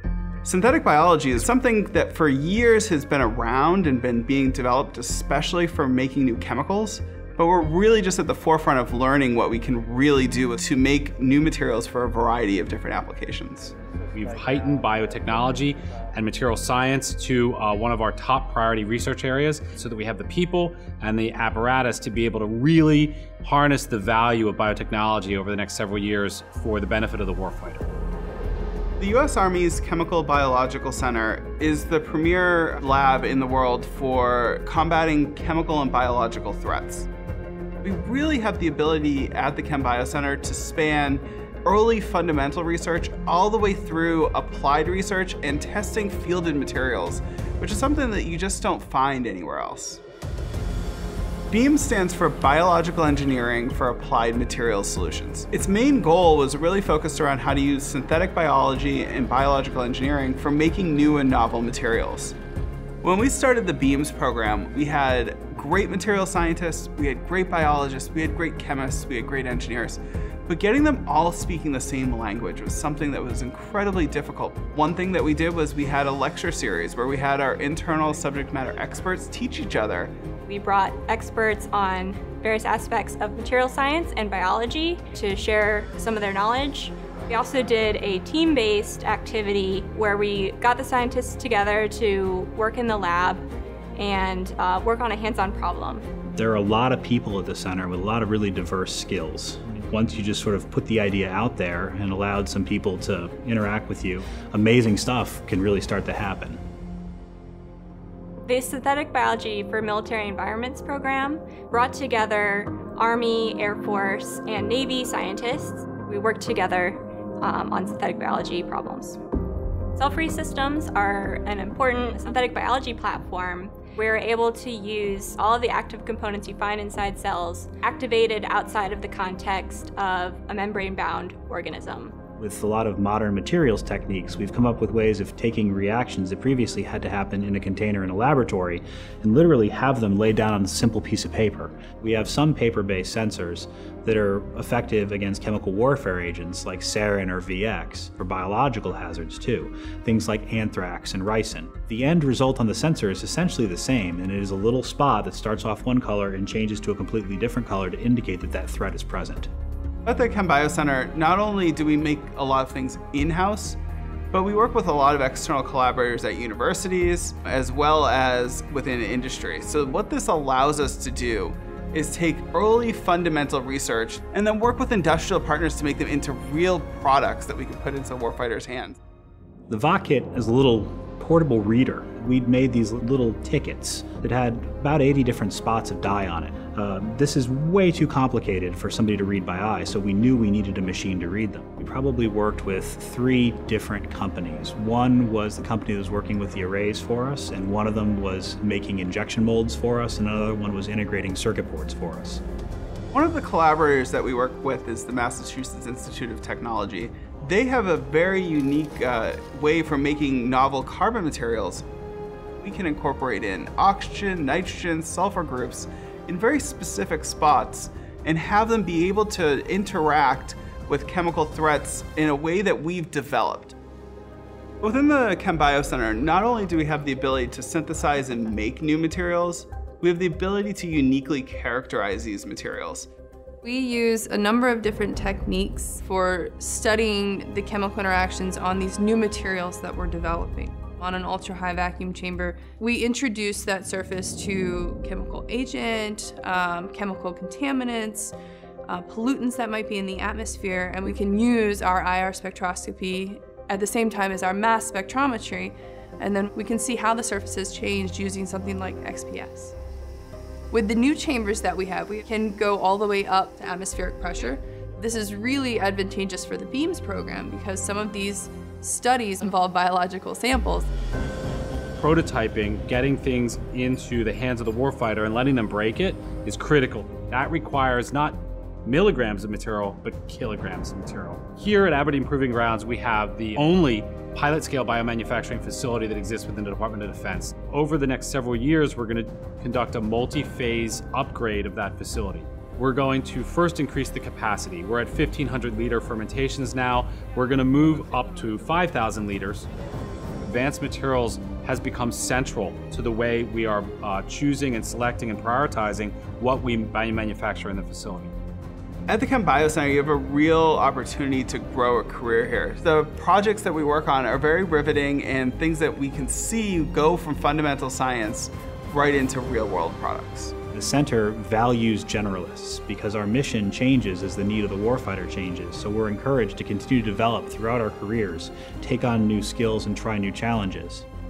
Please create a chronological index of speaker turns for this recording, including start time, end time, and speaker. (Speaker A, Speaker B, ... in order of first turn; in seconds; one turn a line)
Speaker A: 0.4-13.7
Speaker B: 14.1-27.9
Speaker A: 29.0-37.1
Speaker A: 37.8-50.0
Speaker A: 51.5-62.4
Speaker A: 63.0-80.1
Speaker C: 80.4-93.4
Speaker C: 94.0-96.1
Speaker D: 96.3-106.6
Speaker C: 108.4-119.2
Speaker C: 120.0-132.2
Speaker D: 132.4-159.5
Speaker A: 160.0-163.8
Speaker A: 164.3-179.0
Speaker D: 179.7-202.4
Speaker A: 203.1-211.8
Speaker A: 212.6-223.8
Speaker A: 224.8-233.1
Speaker E: 233.6-248.4
Speaker E: 248.9-259.8
Speaker E: 260.7-270.9
Speaker B: 272.0-299.7
Speaker B: 300.4-308.3
Speaker A: 309.1-320.6
Speaker D: 320.7-331.1